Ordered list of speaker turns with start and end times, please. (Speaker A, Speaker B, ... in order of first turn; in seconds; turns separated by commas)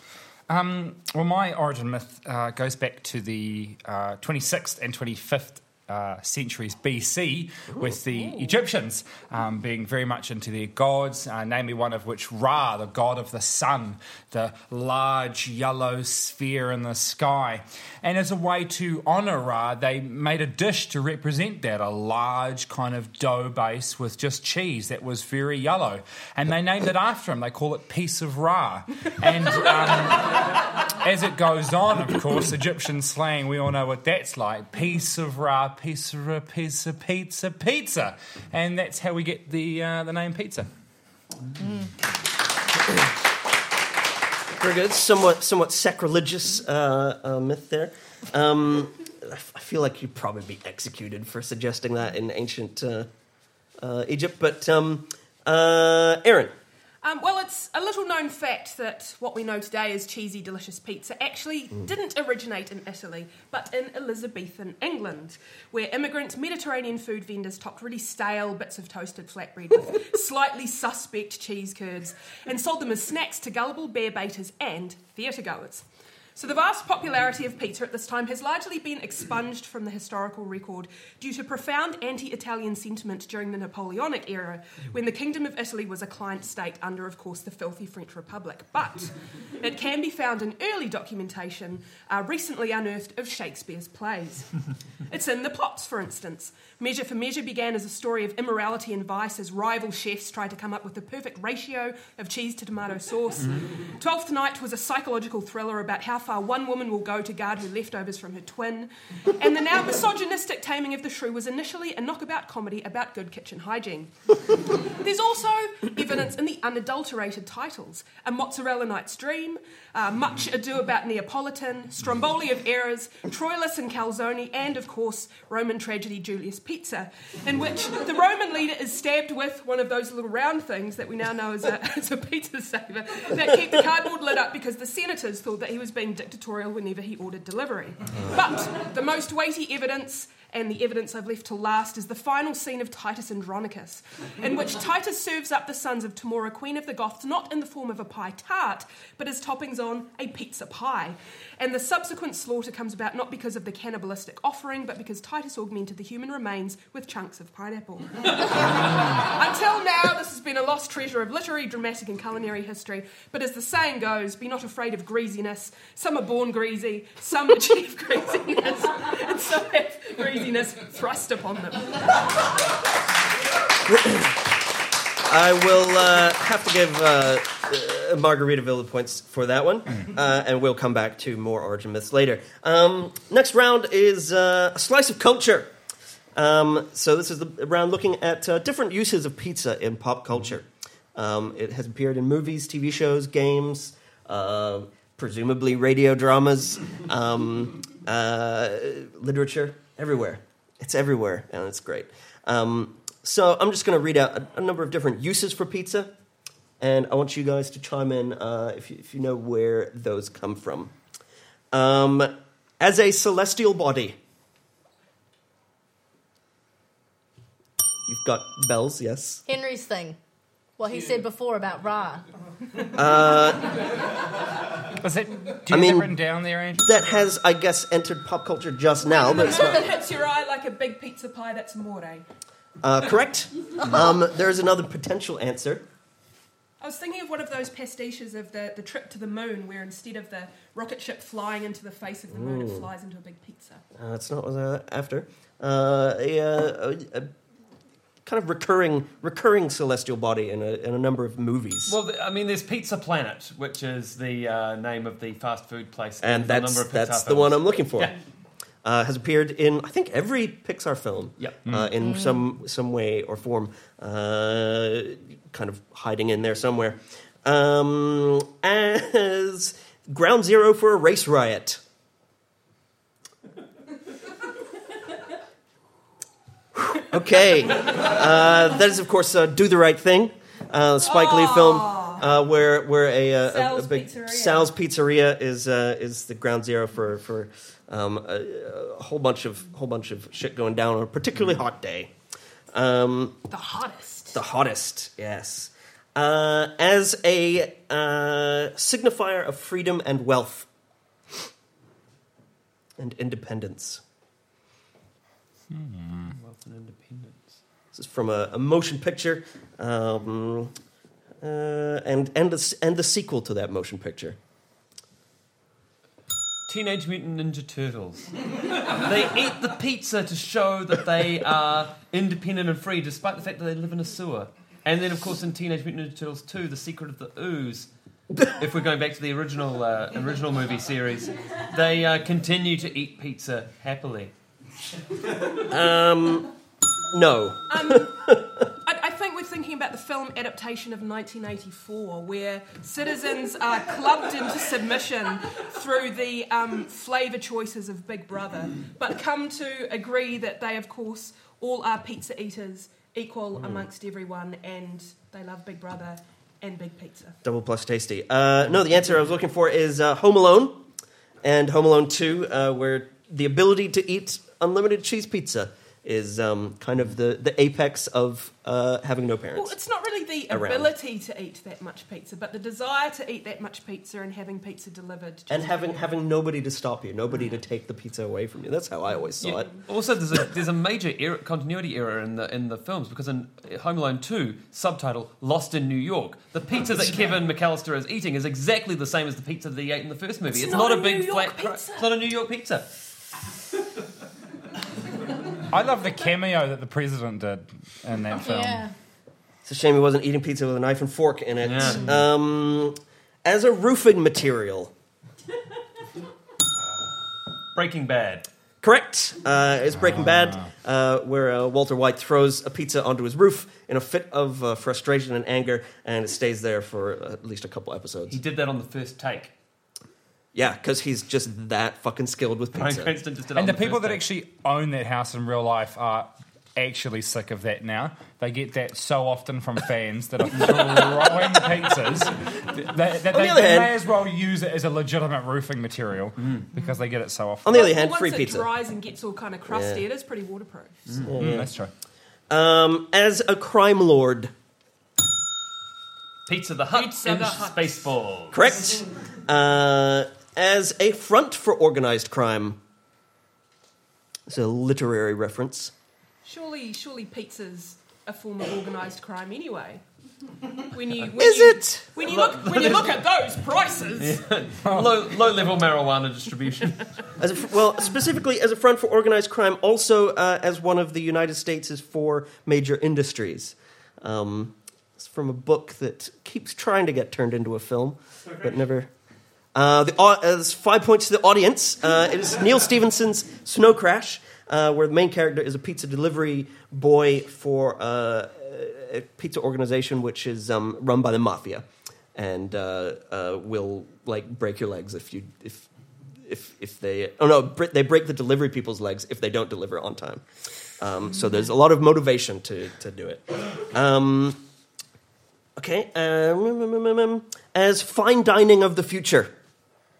Speaker A: 0.5-30.4, Speaker A: 31.0-40.7, Speaker B: 44.6-53.1, Speaker B: 53.8-56.5, Speaker C: 57.0-94.5, Speaker C: 95.1-172.0, Speaker B: 173.8-174.4, Speaker B: 175.2-185.7, Speaker B: 186.3-206.1, Speaker B: 206.8-210.9, Speaker B: 211.7-214.2, Speaker B: 218.0-219.4, Speaker D: 219.5-220.2, Speaker D: 220.8-222.2, Speaker B: 222.9-223.7, Speaker A: 225.0-226.9, Speaker B: 225.7-226.1, Speaker B: 226.8-229.9, Speaker C: 229.0-232.2, Speaker B: 232.8-235.8, Speaker C: 236.8-243.8, Speaker B: 242.3-242.9, Speaker B: 243.9-247.3, Speaker B: 248.2-252.0, Speaker E: 251.9-258.1, Speaker B: 256.2-258.1, Speaker B: 258.8-271.8, Speaker A: 261.6-261.9, Speaker D: 262.0-262.4, Speaker B: 276.8-292.1, Speaker C: 281.0-282.2, Speaker C: 283.4-284.7, Speaker B: 292.7-293.4, Speaker C: 293.5-294.4, Speaker B: 294.3-300.7, Speaker B: 303.0-304.0, Speaker A: 305.7-306.3, Speaker E: 306.3-307.6, Speaker B: 307.9-310.7, Speaker B: 311.4-314.4, Speaker E: 316.7-327.9, Speaker E: 328.4-334.3, Speaker B: 335.6-336.5, Speaker B: 337.1-338.6, Speaker C: 337.7-338.3, Speaker C: 338.8-357.4, Speaker B: 353.6-353.9, Speaker B: 357.4-360.8, Speaker B: 361.4-369.8, Speaker C: 369.6-376.0, Speaker B: 370.5-370.9, Speaker B: 375.5-379.7, Speaker E: 379.5-392.9, Speaker C: 390.5-392.1, Speaker A: 395.7-398.9, Speaker D: 398.4-398.9, Speaker B: 399.6-404.9, Speaker E: 401.6-402.2, Speaker E: 407.7-408.4, Speaker B: 408.8-418.4, Speaker A: 410.2-410.6, Speaker E: 418.3-419.5, Speaker B: 420.5-423.1, Speaker E: 422.7-424.2, Speaker A: 423.5-437.9, Speaker B: 433.3-433.9, Speaker B: 437.6-438.7, Speaker C: 437.7-441.2, Speaker B: 439.7-440.0, Speaker B: 441.2-441.7, Speaker A: 441.3-441.9, Speaker B: 442.5-444.5, Speaker E: 446.4-448.6, Speaker C: 446.9-448.0, Speaker B: 448.5-452.8, Speaker B: 454.5-455.9, Speaker C: 456.4-460.0, Speaker C: 460.8-464.4, Speaker B: 461.4-462.4, Speaker E: 462.2-463.2, Speaker E: 464.2-467.0, Speaker B: 467.4-479.1, Speaker B: 479.7-495.9, Speaker B: 496.4-500.4, Speaker B: 501.0-504.6, Speaker B: 505.8-509.5